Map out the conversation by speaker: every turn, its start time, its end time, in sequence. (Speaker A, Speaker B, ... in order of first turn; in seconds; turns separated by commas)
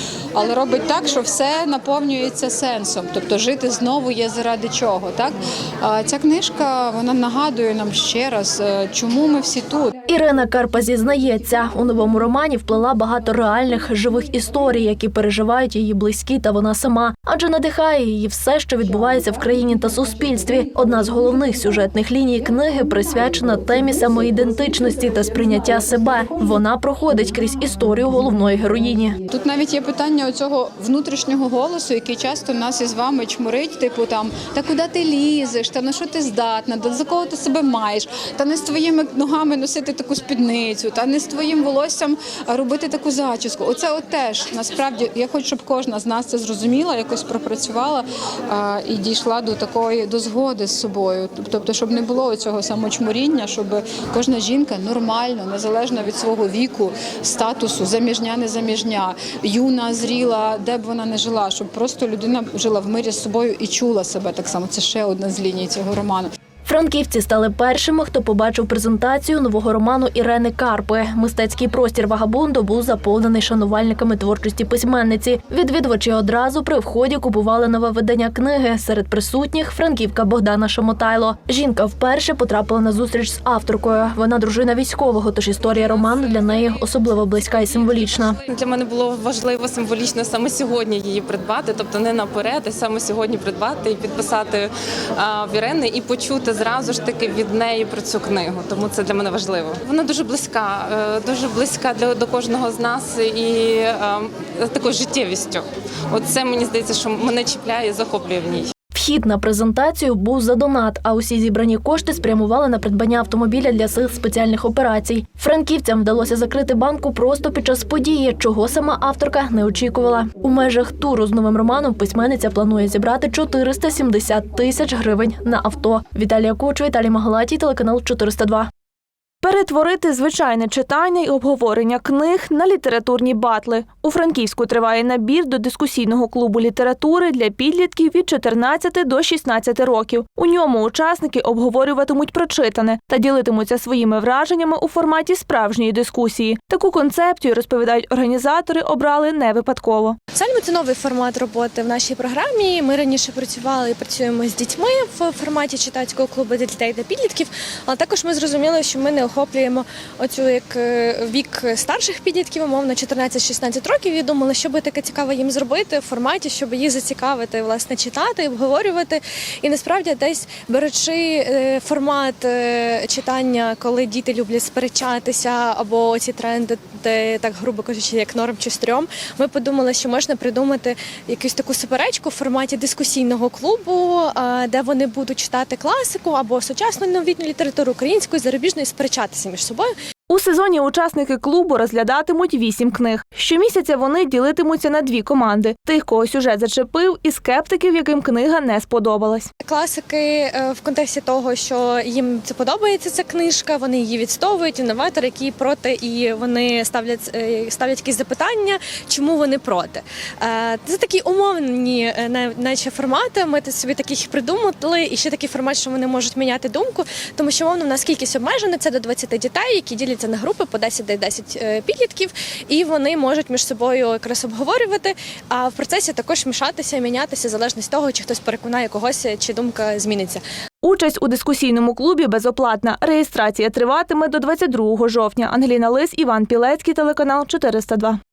Speaker A: 0.3-9.9, Speaker B: 10.1-29.2, Speaker A: 29.3-66.3, Speaker B: 66.7-88.4, Speaker C: 88.5-108.7, Speaker B: 109.0-128.7, Speaker D: 129.4-150.2, Speaker E: 150.3-189.9, Speaker D: 190.3-199.5, Speaker E: 199.6-230.4, Speaker D: 230.8-238.2